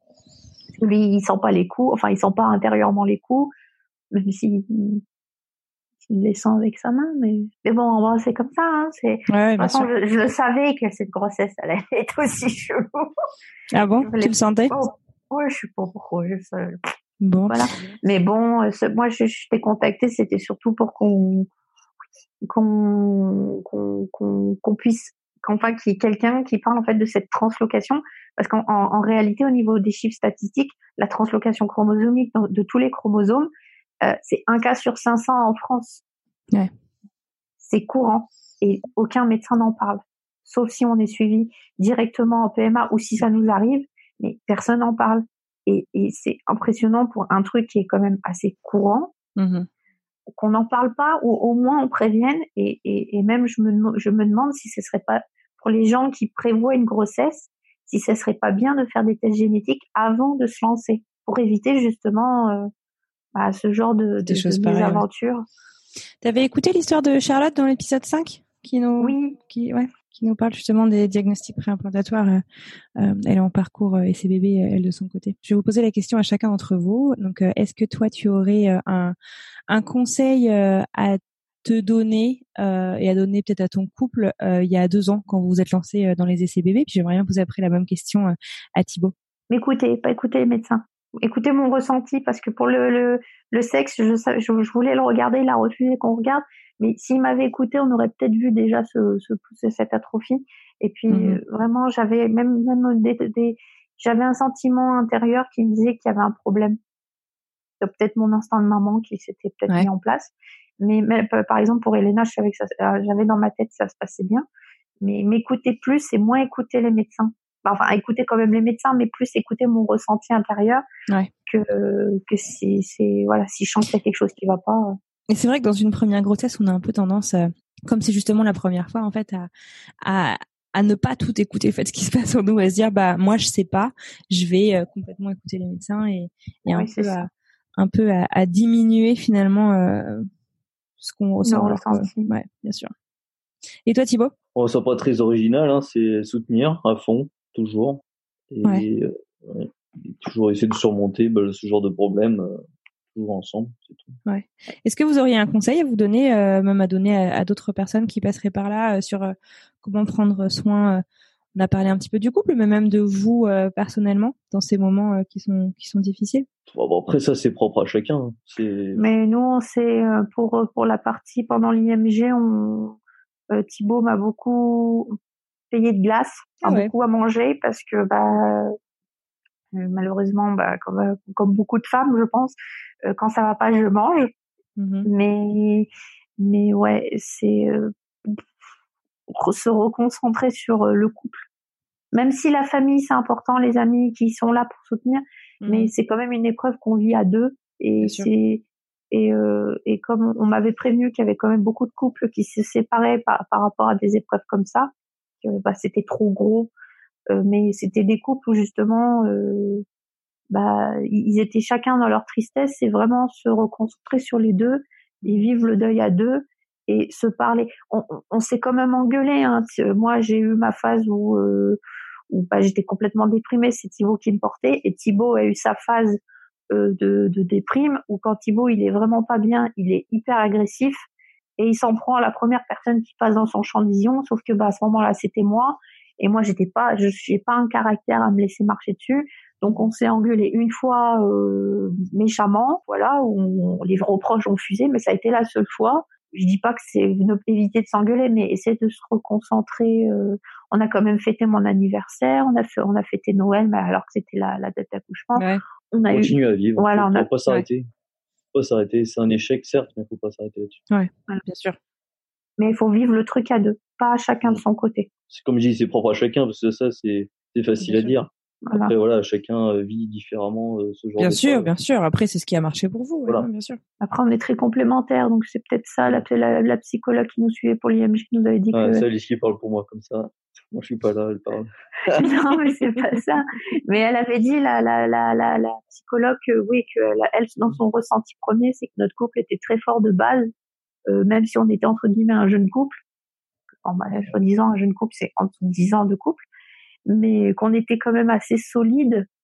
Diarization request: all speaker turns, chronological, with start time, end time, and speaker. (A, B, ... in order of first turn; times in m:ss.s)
0:00.8-0:03.5 A
0:04.1-0:05.0 A
0:06.0-0:13.1 A
0:09.3-0:09.9 B
0:13.7-0:14.7 B
0:14.0-0:16.8 A
0:17.2-0:18.0 B
0:17.5-0:21.5 A
0:22.4-0:33.5 A
0:34.0-0:36.0 A
0:37.6-0:49.1 A
0:49.4-0:49.7 B
0:50.3-1:02.7 A
1:03.3-1:05.4 A
1:04.2-1:05.0 B
1:06.2-1:12.4 B
1:09.0-1:09.4 A
1:13.0-1:19.2 B
1:19.7-1:29.1 B
1:29.5-1:46.8 A
1:41.1-1:41.4 B
1:47.8-1:54.4 A
1:55.0-2:00.8 A
2:01.5-2:05.0 A
2:05.3-2:09.5 B
2:10.0-2:20.3 B
2:16.6-2:17.3 A
2:21.0-2:22.9 B
2:21.4-2:22.3 A
2:23.8-2:24.3 B
2:24.5-2:32.6 C
2:33.1-2:34.2 C
2:34.3-2:41.0 B
2:41.5-2:46.5 B
2:46.7-2:49.0 C
2:49.0-2:53.0 A
2:53.5-2:55.2 A
2:55.7-2:58.7 A
2:56.6-2:56.9 B
2:59.7-3:04.3 A
3:04.8-3:05.1 B
3:05.0-3:08.4 A
3:09.3-3:11.4 A
3:12.1-3:24.9 A
3:15.6-3:15.9 B
3:18.0-3:18.3 B
3:25.4-3:26.7 A
3:27.3-3:29.8 A
3:30.5-3:41.8 A
3:42.3-3:46.2 A
3:46.7-3:51.0 A
3:51.6-4:17.3 A
4:15.4-4:15.6 B
4:16.1-4:17.9 C
4:18.5-4:20.8 C
4:20.9-4:21.8 B
4:22.6-4:25.1 A
4:25.3-4:31.7 C
4:27.8-4:28.2 B
4:28.6-4:28.9 A
4:31.2-4:33.8 B
4:34.0-4:39.0 A
4:38.7-4:42.3 C
4:42.2-4:50.5 A
4:51.1-4:53.0 A
4:53.8-4:56.4 A
4:57.1-4:59.3 A